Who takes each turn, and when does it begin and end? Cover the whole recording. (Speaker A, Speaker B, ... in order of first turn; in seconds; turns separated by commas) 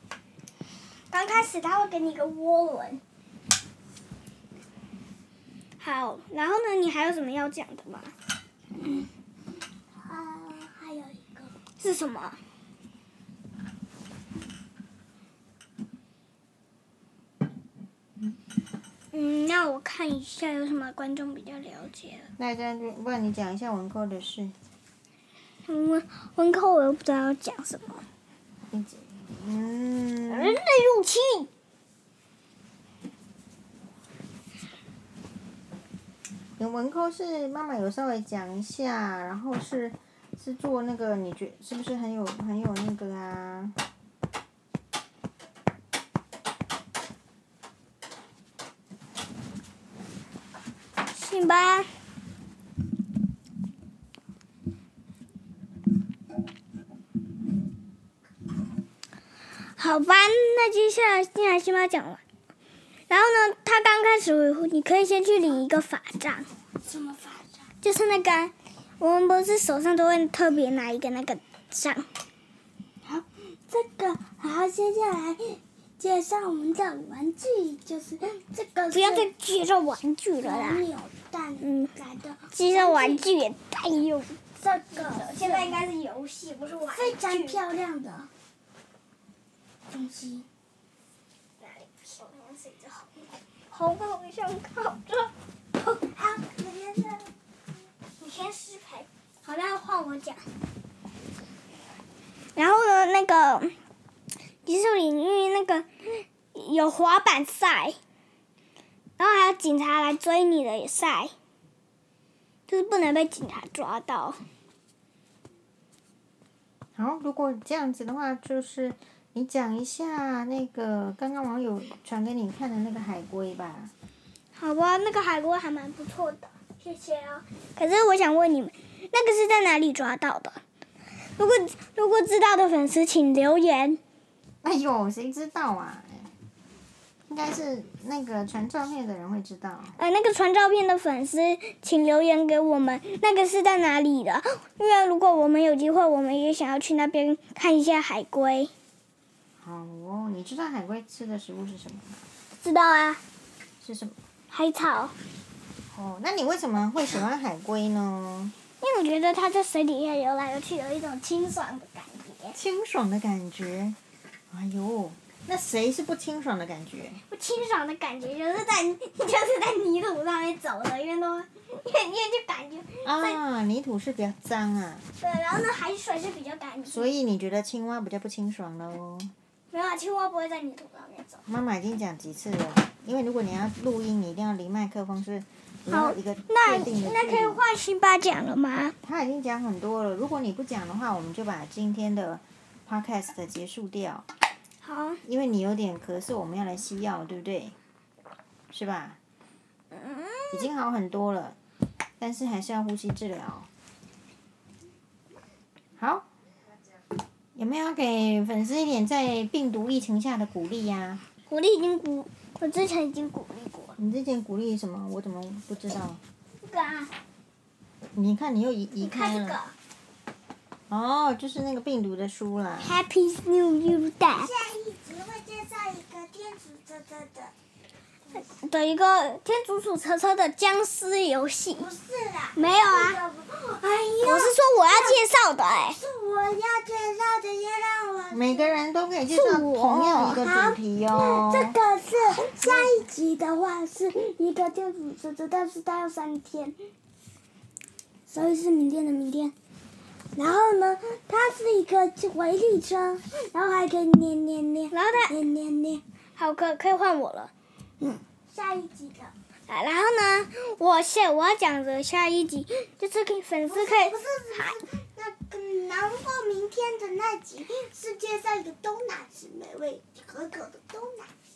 Speaker A: 1.1-3.0, Speaker A: 5.8-8.1, Speaker B: 10.0-11.5, Speaker A: 11.8-12.4, Speaker A: 19.1-22.3, Speaker C: 22.4-24.5, Speaker A: 25.7-28.0, Speaker C: 28.7-30.6, Speaker A: 30.3-31.5, Speaker C: 36.6-43.7, Speaker A: 51.1-51.9, Speaker A: 59.8-62.2, Speaker A: 63.1-66.5, Speaker B: 66.8-67.6, Speaker A: 67.8-72.1, Speaker B: 73.0-79.3, Speaker A: 78.9-80.8, Speaker B: 80.4-83.3, Speaker A: 81.6-81.9, Speaker A: 82.5-84.4, Speaker B: 84.6-85.8, Speaker A: 84.9-87.6, Speaker B: 86.9-88.3, Speaker B: 89.9-90.5, Speaker A: 91.6-95.3, Speaker B: 95.9-97.3, Speaker A: 98.2-100.4, Speaker A: 102.5-103.7, Speaker A: 104.6-108.0, Speaker A: 109.2-111.3, Speaker A: 112.7-114.4, Speaker C: 117.0-123.9, Speaker A: 124.5-130.6, Speaker A: 131.4-134.0, Speaker C: 134.6-136.3, Speaker C: 137.3-139.9, Speaker A: 140.0-148.7, Speaker C: 149.6-152.2, Speaker A: 152.6-153.2, Speaker C: 153.8-154.1, Speaker A: 154.5-155.1, Speaker C: 155.9-158.5, Speaker A: 158.8-162.6, Speaker C: 162.5-163.9, Speaker C: 164.5-167.2, Speaker A: 167.3-173.4, Speaker C: 173.0-175.1, Speaker A: 175.2-177.1, Speaker C: 176.9-179.3, Speaker A: 179.7-181.4, Speaker C: 181.5-187.6, Speaker A: 185.9-188.9, Speaker C: 189.0-194.2, Speaker A: 194.8-195.2, Speaker C: 195.2-197.8, Speaker C: 198.7-199.2, Speaker A: 199.9-200.7, Speaker C: 200.5-201.5, Speaker C: 202.2-203.7, Speaker C: 206.0-206.2, Speaker C: 207.6-211.2, Speaker A: 211.5-213.9, Speaker C: 214.0-216.2, Speaker A: 216.6-217.1, Speaker C: 218.2-219.6, Speaker A: 219.0-219.7, Speaker C: 220.9-223.0, Speaker A: 222.8-224.5, Speaker B: 224.2-227.5, Speaker A: 228.3-231.8, Speaker B: 231.7-235.2, Speaker A: 232.5-233.2, Speaker A: 234.2-236.0, Speaker B: 235.9-238.8, Speaker C: 238.3-241.8, Speaker A: 239.3-240.4, Speaker B: 240.4-246.8, Speaker C: 242.6-243.0, Speaker B: 248.3-249.5, Speaker B: 250.3-256.0, Speaker A: 254.9-255.3, Speaker A: 256.4-257.5, Speaker B: 258.0-259.3, Speaker A: 259.7-264.1, Speaker B: 263.6-271.3